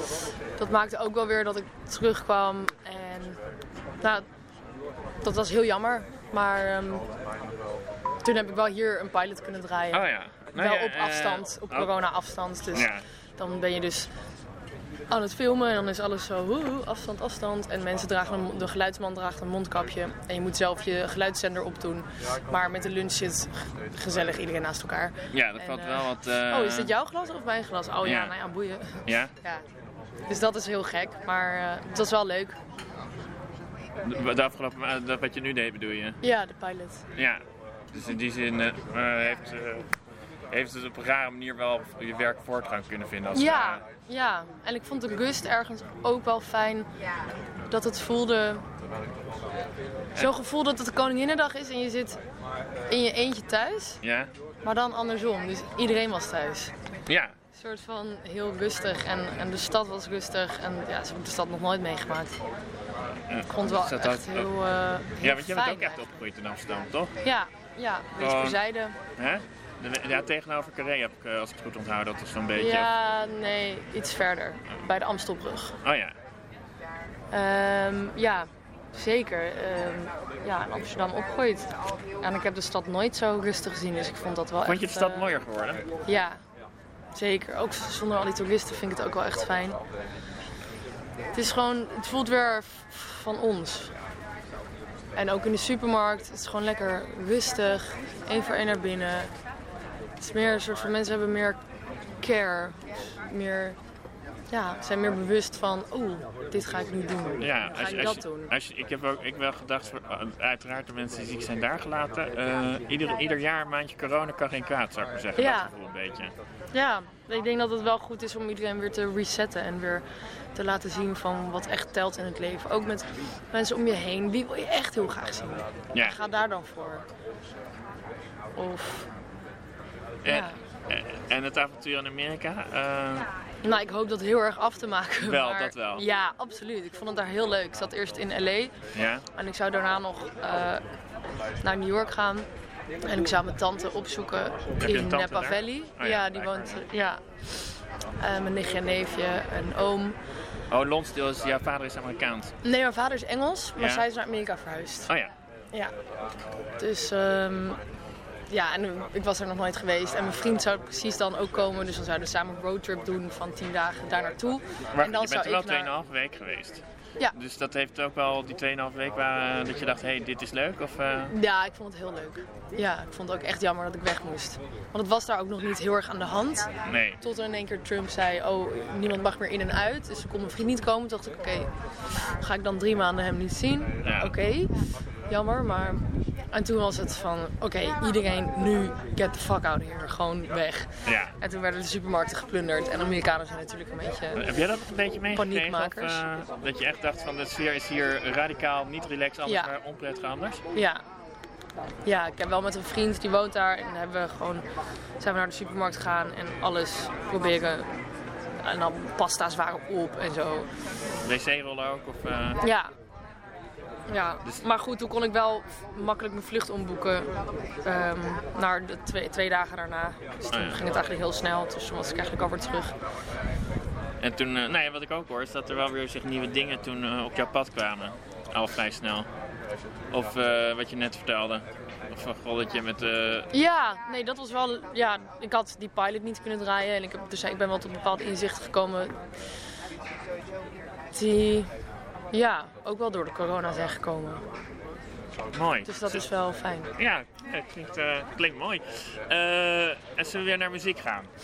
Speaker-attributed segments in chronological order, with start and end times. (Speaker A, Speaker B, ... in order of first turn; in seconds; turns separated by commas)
Speaker A: 0.6-3.4, Speaker A: 5.2-7.0, Speaker A: 8.2-14.1, Speaker B: 9.9-11.9, Speaker B: 12.7-13.0, Speaker A: 15.1-29.6, Speaker B: 25.3-26.9, Speaker B: 28.0-28.3, Speaker A: 30.3-32.6, Speaker B: 34.0-36.2, Speaker A: 36.2-37.0, Speaker B: 37.2-39.9, Speaker B: 40.5-43.8, Speaker A: 43.4-46.9, Speaker A: 47.7-48.6, Speaker A: 50.2-52.2, Speaker A: 52.9-54.0, Speaker B: 54.0-54.3, Speaker A: 54.6-56.7, Speaker B: 57.1-57.4, Speaker A: 57.5-62.4, Speaker B: 63.3-64.5, Speaker A: 63.5-66.0, Speaker B: 65.2-67.1, Speaker A: 67.2-69.0, Speaker B: 68.2-68.6, Speaker B: 69.2-72.9, Speaker A: 72.6-75.8, Speaker B: 75.8-76.2, Speaker A: 77.3-81.7, Speaker A: 82.2-85.3, Speaker B: 84.6-85.8, Speaker A: 86.1-86.4, Speaker A: 87.2-89.8, Speaker A: 91.3-93.9, Speaker A: 95.2-99.3, Speaker A: 100.2-101.6, Speaker A: 102.2-103.8, Speaker A: 104.5-108.5, Speaker B: 107.4-116.3, Speaker A: 115.4-115.7, Speaker A: 116.7-120.0, Speaker A: 120.5-127.0, Speaker A: 128.6-129.1, Speaker B: 130.2-133.3, Speaker A: 130.3-130.6, Speaker A: 133.6-138.7, Speaker B: 135.2-136.0, Speaker B: 138.9-139.2, Speaker A: 139.3-140.8, Speaker A: 141.6-142.5, Speaker A: 143.0-147.7, Speaker B: 144.8-146.8, Speaker A: 148.2-150.2, Speaker B: 150.7-152.5, Speaker A: 152.6-155.1, Speaker B: 153.8-154.0, Speaker A: 156.8-157.8, Speaker A: 158.5-165.9, Speaker B: 164.9-166.8, Speaker B: 167.3-171.3, Speaker A: 171.3-176.7, Speaker B: 176.8-177.2, Speaker A: 177.2-181.7, Speaker A: 182.4-184.7, Speaker B: 184.0-184.3, Speaker A: 185.3-194.4, Speaker B: 191.1-191.3, Speaker B: 194.3-200.6, Speaker A: 195.3-196.2, Speaker A: 200.7-201.0, Speaker A: 202.1-204.7, Speaker A: 205.2-208.0, Speaker A: 208.6-210.7, Speaker B: 211.2-212.6, Speaker A: 212.6-212.9, Speaker A: 214.1-217.3, Speaker A: 217.8-222.9, Speaker B: 220.5-220.8, Speaker B: 224.2-229.3, Speaker B: 230.1-233.5, Speaker A: 233.5-239.2, Speaker A: 241.1-241.7, Speaker A: 242.3-244.4, Speaker B: 245.5-246.3, Speaker A: 245.9-246.9, Speaker B: 247.0-251.3